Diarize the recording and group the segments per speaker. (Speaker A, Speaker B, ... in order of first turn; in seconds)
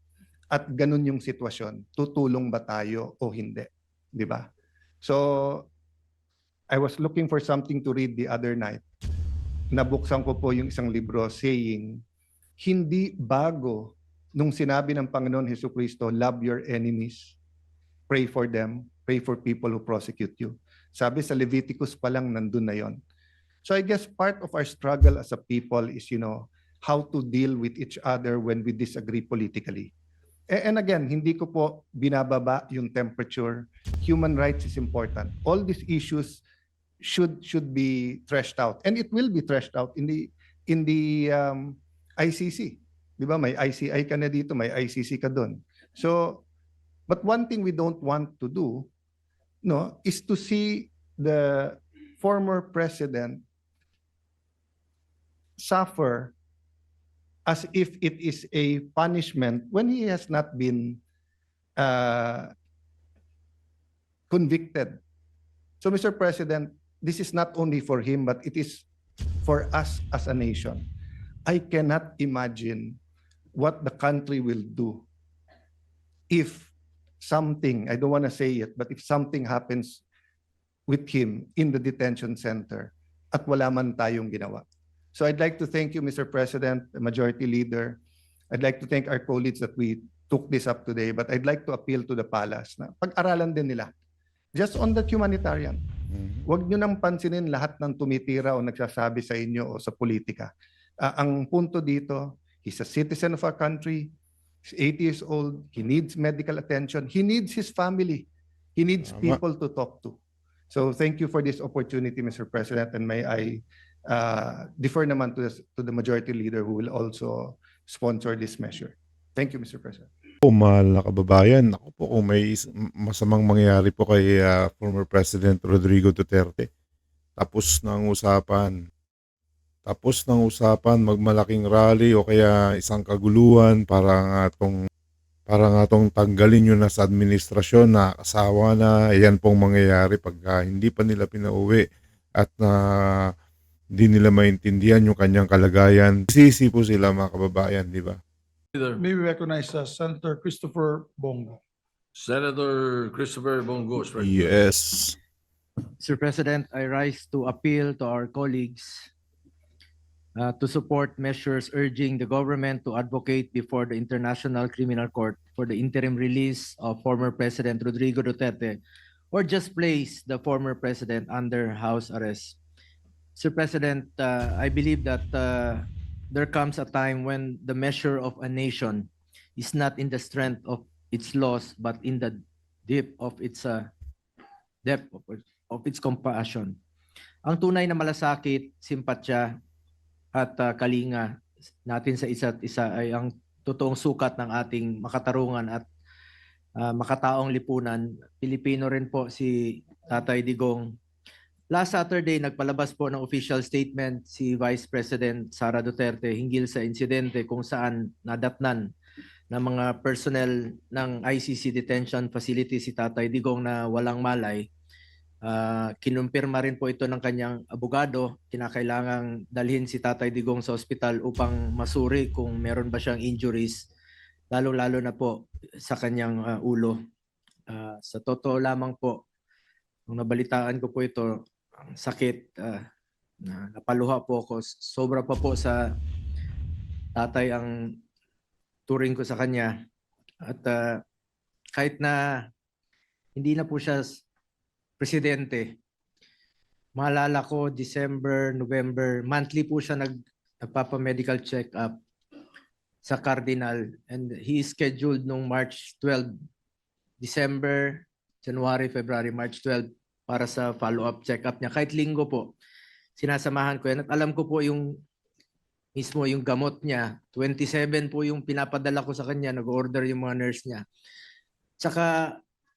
Speaker A: 0.5-4.5, 5.0-5.7, 6.7-8.8, 9.7-12.0, 12.6-17.4, 18.1-23.0, 23.6-29.9, 30.5-36.4, 37.0-46.4, 47.1-48.9, 49.6-53.4, 55.6-56.3, 57.5-61.0, 61.8-62.5, 64.3-65.0, 65.8-68.9, 69.5-70.9, 71.5-73.0, 73.6-75.1, 76.3-76.7, 77.2-80.0, 80.9-84.6, 85.2-88.0, 88.5-93.9, 94.5-95.8, 96.5-100.5, 101.0-104.1, 104.7-110.2, 110.7-120.1
Speaker B: 96.1-96.4, 109.0-109.4, 120.4-126.7, 127.4-128.7, 129.9-134.8, 135.5-141.8, 142.4-143.3, 144.0-148.2, 154.2-155.2
Speaker C: 148.7-149.0, 152.2-154.7
Speaker D: 149.0-151.6
Speaker E: 156.0-159.1, 160.4-168.8, 169.3-172.6, 173.4-182.3, 182.9-183.8, 184.8-186.7, 187.5-189.5, 190.3-191.3, 191.9-195.8, 196.8-200.9, 201.7-208.9, 209.5-214.7, 215.4-223.9, 224.5-227.0, 227.7-229.2, 230.1-231.3, 232.0-232.8, 233.4-235.8, 237.2-237.7, 238.9-239.7, 240.5-240.8, 241.8-242.2, 243.4-244.2, 245.0-245.8, 247.0-251.9, 253.1-256.3, 257.2-262.5, 263.2-264.9, 265.9-270.8, 271.8-272.1